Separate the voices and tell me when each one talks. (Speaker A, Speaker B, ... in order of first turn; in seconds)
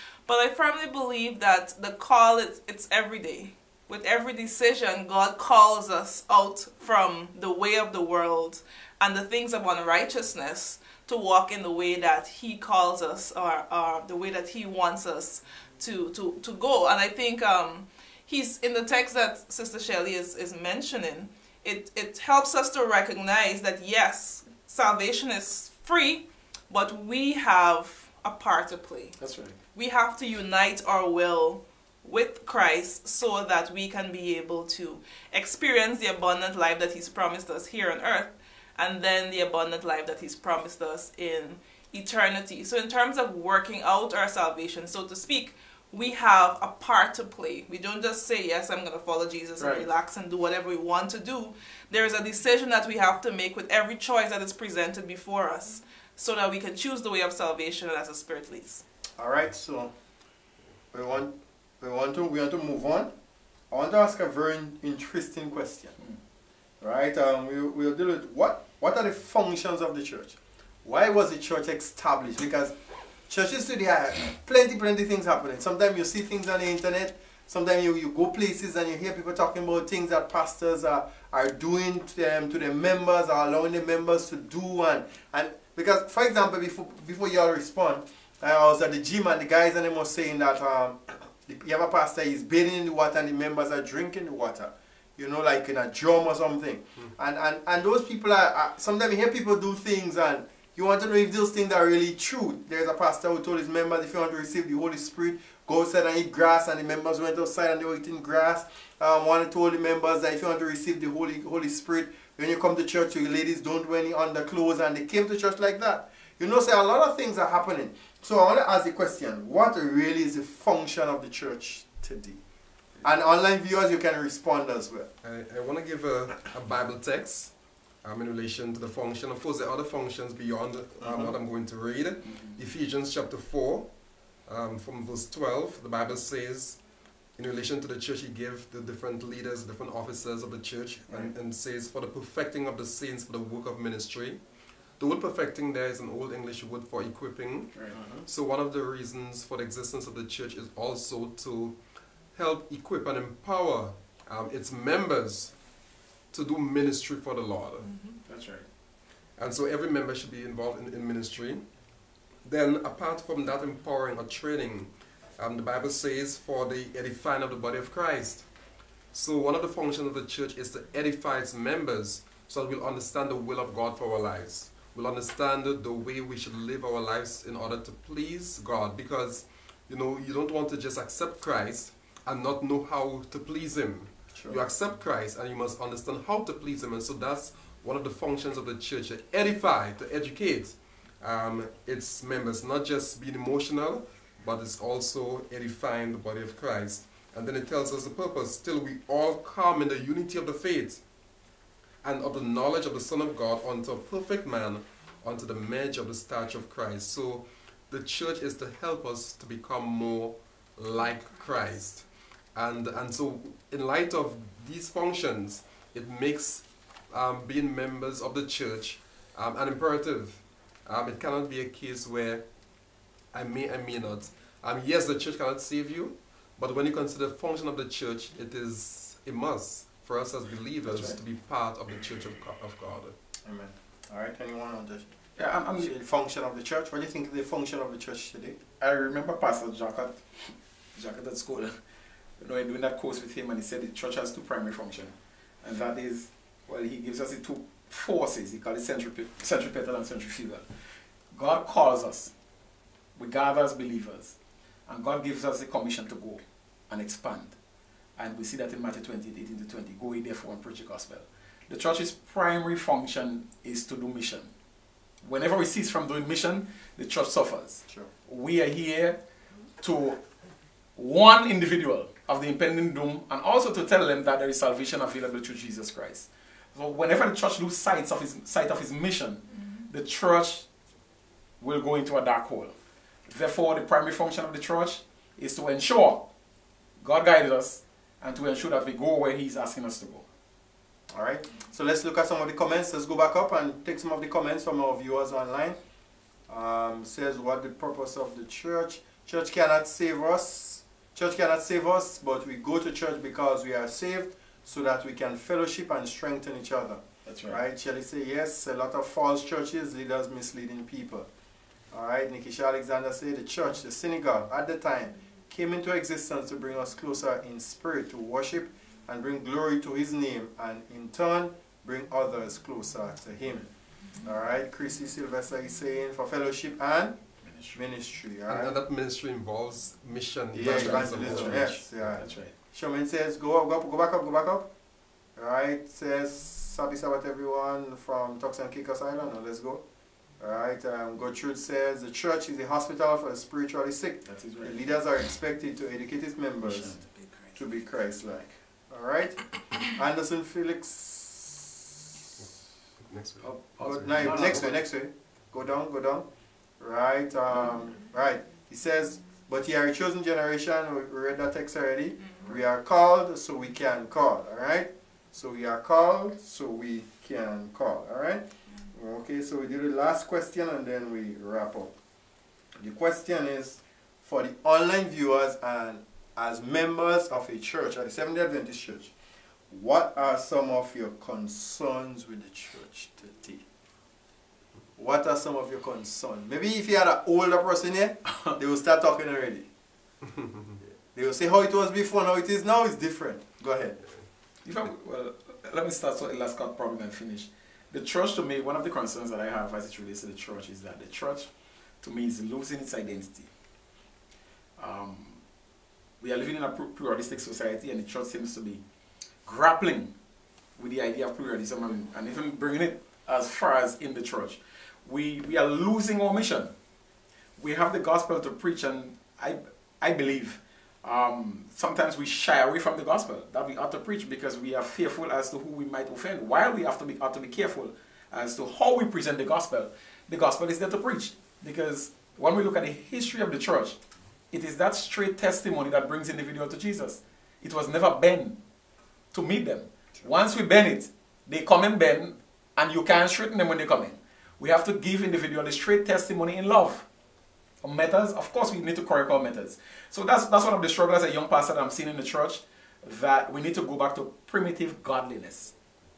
Speaker A: 0.3-29.2, 29.7-58.8, 157.9-158.2
Speaker B: 29.2-29.6, 49.6-49.9, 132.2-132.6, 158.2-158.7, 230.9-231.2, 235.3-235.9, 238.8-241.8, 242.4-250.7, 251.3-252.3, 253.2-254.3, 254.9-257.6, 258.2-264.5, 265.2-269.2, 269.8-270.2, 270.9-280.7, 281.6-282.7, 283.3-286.3, 287.0-290.2, 307.2-307.6, 327.4-327.8, 330.6-332.5, 344.2-344.8, 346.6-347.0, 353.4-354.8, 394.6-401.5, 402.0-403.5, 404.8-405.4, 406.2-408.8, 409.4-410.1, 410.8-416.7, 417.6-434.0, 434.5-438.6, 439.3-447.1, 447.8-455.7
Speaker C: 59.2-59.9, 60.9-63.1, 63.7-66.0, 66.8-72.7, 73.3-122.4, 123.0-125.1, 131.0-131.3, 147.9-148.2, 184.3-184.6, 233.4-235.1, 235.7-238.6, 291.1-295.8, 296.5-311.3, 311.9-323.7, 324.2-327.2, 327.7-328.8, 330.5-334.7, 335.4-339.8, 340.4-347.0, 347.5-352.0, 353.8-356.3, 356.8-371.9, 372.7-379.1, 379.7-383.6, 385.0-389.7, 391.1-393.9
Speaker D: 125.2-133.9, 134.4-136.8, 137.3-144.4, 145.0-147.7, 148.2-151.8, 152.3-155.6, 156.3-157.9, 159.3-161.7, 162.4-168.5, 169.1-201.0, 202.0-222.5, 223.3-233.2, 328.5-331.8, 353.0-354.6, 390.4-390.7